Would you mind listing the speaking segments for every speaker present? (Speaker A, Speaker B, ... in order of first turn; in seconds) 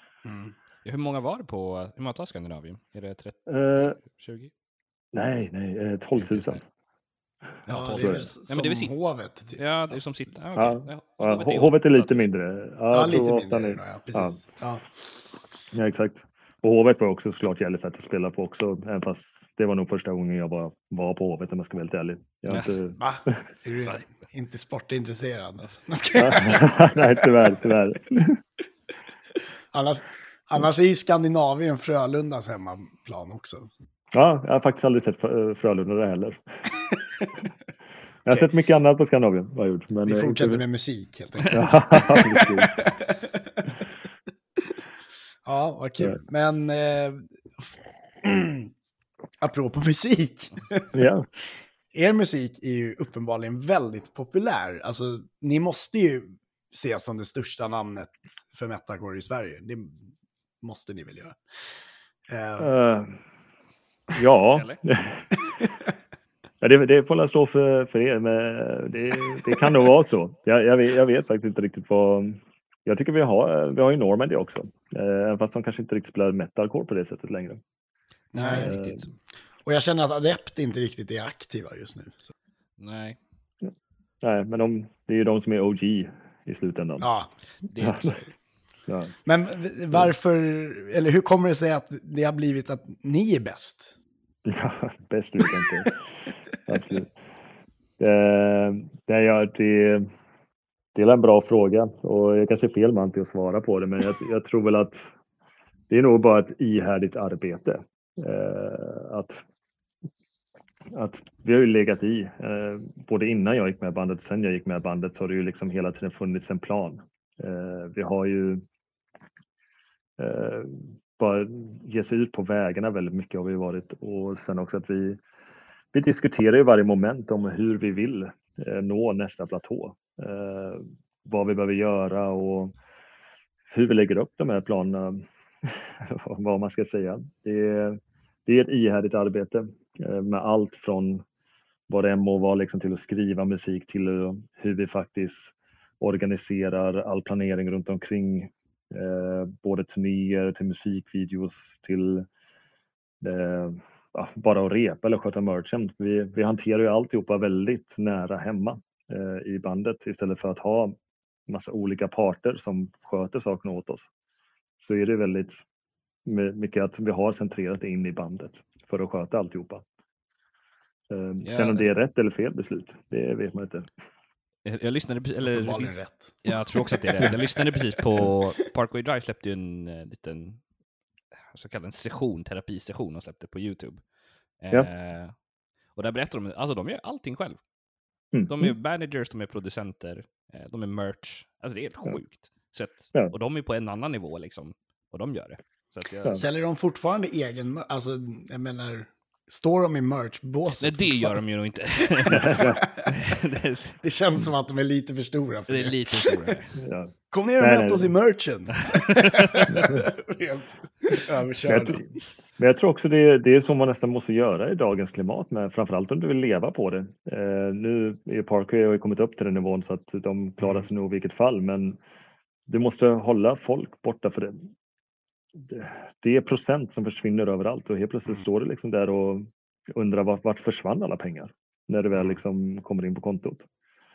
Speaker A: 0.2-0.5, 7.7-10.0, 12.9-14.8, 23.0-27.3, 29.7-33.7, 40.0-43.6, 45.5-47.7, 48.2-48.7, 49.4-51.1, 51.9-60.1, 60.6-61.4, 62.3-62.7, 78.3-78.8, 79.7-82.3, 87.0-87.3, 89.2-93.9, 175.4-178.3, 196.3-201.4, 202.0-203.4, 204.0-206.6, 207.3-212.1
Speaker B: 0.8-4.5, 6.2-6.6, 7.7-8.9, 9.6-12.3, 64.5-64.8, 78.3-79.0, 82.8-83.2, 87.7-88.3, 171.4-171.9, 174.7-180.6, 181.5-184.0, 184.6-185.3, 185.9-187.6, 188.5-196.4, 200.8-204.0, 205.7-206.8, 208.8-209.6
Speaker C: 3.5-4.0, 5.1-6.6, 7.9-8.3, 10.6-14.4, 15.7-24.0, 26.1-28.4, 34.1-36.4, 38.3-40.6, 41.5-42.9, 50.9-51.3, 62.6-63.1, 64.1-65.2, 66.6-77.6, 78.5-79.1, 84.2-87.1, 87.8-88.2, 88.9-89.2, 94.5-96.0, 96.7-97.1, 98.0-100.1, 101.0-105.0, 105.9-109.4, 110.9-118.6, 120.2-125.2, 125.9-132.8, 133.7-141.2, 141.9-152.3, 153.2-160.9, 161.5-164.1, 164.8-165.6, 166.3-169.8, 171.1-173.9, 188.3-188.8, 202.3-202.8, 206.8-208.1, 209.7-210.1, 211.7-222.0, 222.7-224.7, 225.6-233.7